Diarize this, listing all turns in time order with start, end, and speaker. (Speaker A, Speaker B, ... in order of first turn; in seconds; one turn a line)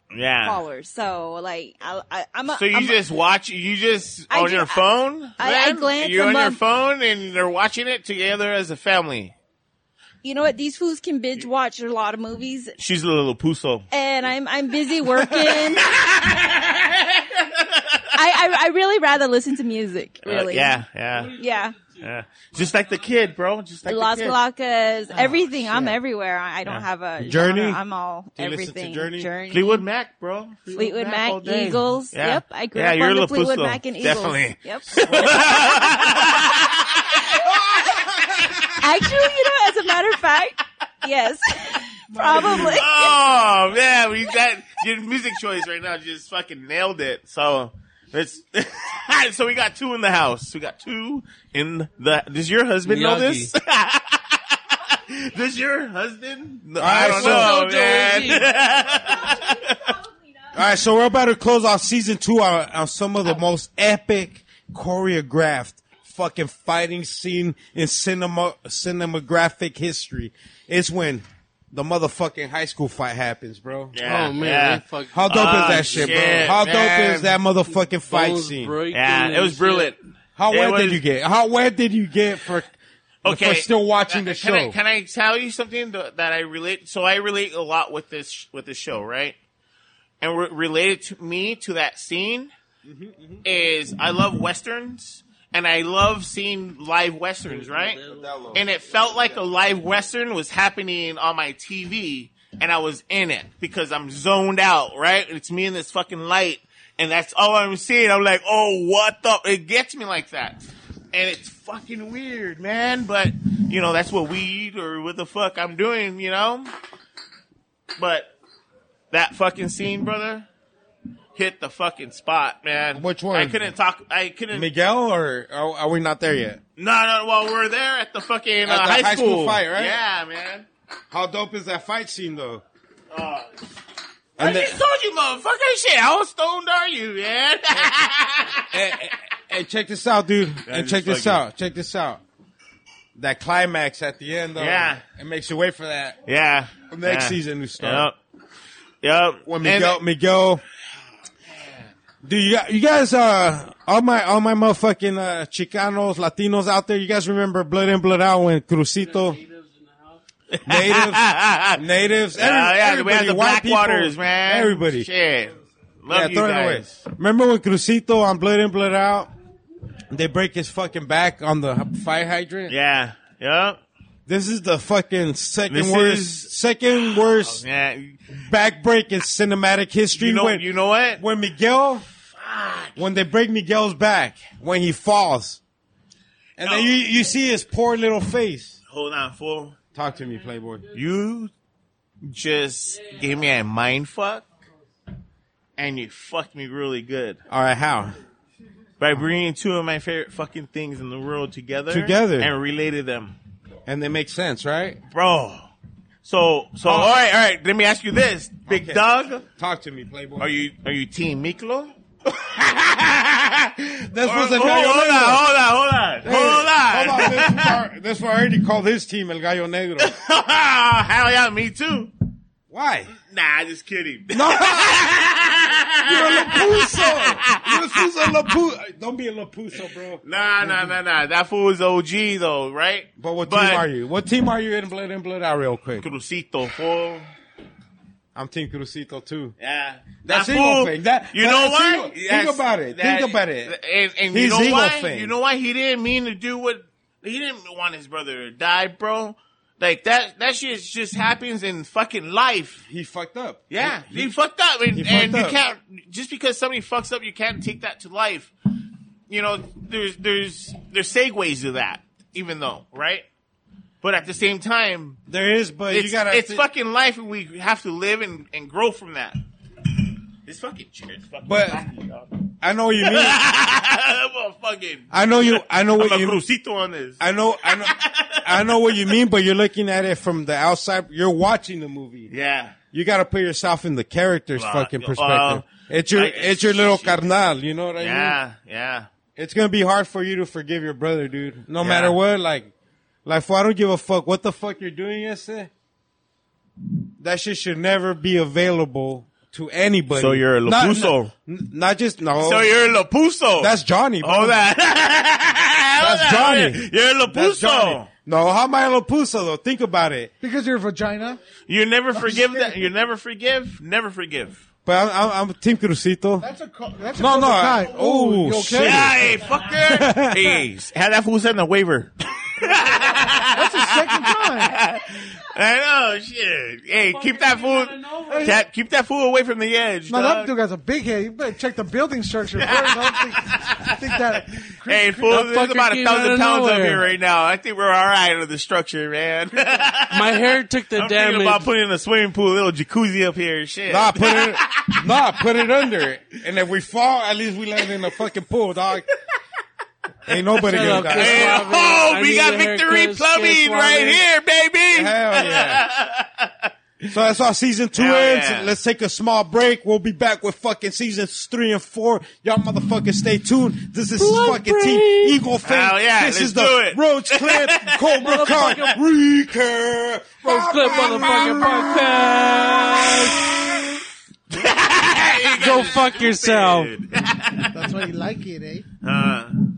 Speaker A: 0.1-0.6
Speaker B: 0.4-3.0
Speaker A: 2.5-9.3
Speaker B: 4.3-4.8
Speaker B: 5.4-6.6
Speaker B: 10.2-12.8
Speaker A: 12.8-13.9
Speaker B: 13.9-15.9
Speaker A: 15.2-18.1
Speaker B: 18.1-20.8
Speaker A: 20.2-24.4
Speaker B: 21.4-21.8
Speaker B: 23.8-29.9
Speaker C: 25.2-26.0
Speaker C: 27.2-27.8
Speaker C: 28.4-29.3
Speaker A: 29.5-37.2
Speaker B: 30.8-36.5
Speaker C: 37.9-38.6
Speaker B: 38.8-43.2
Speaker A: 42.3-59.9
Speaker D: 52.9-53.5
Speaker C: 56.8-57.6
Speaker D: 57.0-58.5
Speaker C: 60.5-74.0
Speaker A: 73.9-77.4
Speaker D: 74.0-76.4
Speaker C: 75.1-78.8
Speaker D: 78.1-79.9
Speaker A: 78.9-80.0
Speaker C: 80.4-82.7
Speaker A: 80.5-81.0
Speaker C: 83.2-84.8
Speaker A: 83.2-89.4
Speaker A: 90.2-92.5
Speaker C: 92.8-93.5
Speaker A: 93.4-98.0
Speaker D: 97.5-98.3
Speaker C: 98.1-99.4
Speaker A: 98.5-116.7
Speaker A: 118.0-118.3
Speaker A: 119.1-120.5
Speaker A: 121.4-124.7
Speaker C: 123.0-123.7
Speaker C: 124.5-126.6
Speaker A: 126.8-130.7
Speaker C: 128.7-130.0
Speaker C: 131.1-132.6
Speaker A: 133.1-133.5
Speaker C: 134.4-134.8
Speaker A: 134.4-138.8
Speaker C: 138.7-142.2
Speaker A: 140.7-141.4
Speaker C: 143.2-146.2
Speaker A: 144.6-145.0
Speaker A: 146.3-148.2
Speaker C: 146.9-148.1
Speaker A: 149.0-150.0
Speaker C: 149.5-150.6
Speaker C: 152.2-159.4
Speaker D: 159.0-160.2
Speaker A: 160.5-161.8
Speaker C: 160.7-165.1
Speaker A: 162.3-167.0
Speaker C: 166.1-169.3
Speaker C: 170.1-172.7
Speaker A: 172.7-173.8
Speaker C: 174.3-177.6
Speaker A: 175.7-178.3
Speaker C: 178.3-180.6
Speaker A: 180.1-181.2
Speaker C: 181.2-182.1
Speaker A: 182.4-183.0
Speaker C: 183.0-185.6
Speaker C: 186.6-188.8
Speaker A: 186.6-187.1
Speaker A: 188.9-189.8
Speaker C: 189.9-190.9
Speaker A: 190.9-191.5
Speaker A: 192.2-194.5
Speaker A: 195.8-197.4
Speaker C: 197.5-198.2
Speaker A: 199.0-203.3
Speaker C: 201.9-202.5
Speaker C: 203.9-205.0
Speaker A: 205.1-205.7
Speaker A: 206.2-209.4
Speaker C: 206.8-207.2
Speaker C: 208.7-210.5
Speaker A: 210.4-217.8
Speaker C: 214.1-215.4
Speaker C: 216.2-220.1
Speaker A: 220.0-222.1
Speaker C: 222.7-223.1
Speaker A: 223.2-228.5
Speaker C: 224.3-225.2
Speaker C: 226.1-231.0
Speaker A: 230.2-233.8
Speaker C: 233.2-236.1
Speaker A: 236.0-237.3
Speaker C: 238.3-239.5
Speaker A: 239.6-252.8
Speaker C: 240.2-243.8
Speaker C: 244.3-245.3
Speaker C: 252.9-254.3
Speaker A: 253.7-258.5
Speaker C: 255.0-255.6
Speaker A: 259.3-263.3
Speaker A: 264.0-265.2
Speaker C: 265.3-266.6
Speaker A: 265.9-269.4
Speaker A: 270.4-279.2
Speaker C: 271.5-271.8
Speaker C: 272.6-273.4
Speaker C: 275.1-276.4
Speaker C: 277.2-282.3
Speaker A: 282.3-282.8
Speaker C: 282.9-288.4
Speaker A: 284.6-287.2
Speaker A: 288.0-289.1
Speaker C: 289.4-292.7
Speaker A: 291.8-292.2
Speaker C: 293.2-295.7
Speaker C: 297.2-302.8
Speaker A: 300.1-301.3
Speaker A: 302.4-308.1
Speaker C: 303.6-304.6
Speaker C: 306.0-310.3
Speaker E: 310.4-311.4
Speaker A: 311.7-314.6
Speaker E: 312.2-312.7
Speaker C: 314.9-316.5
Speaker E: 316.4-319.2
Speaker C: 317.1-320.6
Speaker A: 318.7-330.5
Speaker E: 323.4-324.8
Speaker D: 326.9-328.6
Speaker E: 328.3-328.6
Speaker E: 330.1-335.4
Speaker A: 332.6-340.4
Speaker D: 335.3-337.0
Speaker D: 340.1-341.7
Speaker A: 341.0-345.0
Speaker C: 343.9-349.1
Speaker C: 350.3-351.7
Speaker D: 350.6-354.2
Speaker A: 350.8-356.7
Speaker C: 354.9-355.9
Speaker C: 357.1-373.7
Speaker A: 357.9-358.7
Speaker D: 364.2-365.4
Speaker A: 365.6-368.9
Speaker D: 368.2-369.0
Speaker D: 370.4-373.5
Speaker A: 373.1-373.8
Speaker A: 374.5-378.0
Speaker D: 375.5-376.9
Speaker E: 377.7-378.9
Speaker A: 379.0-379.6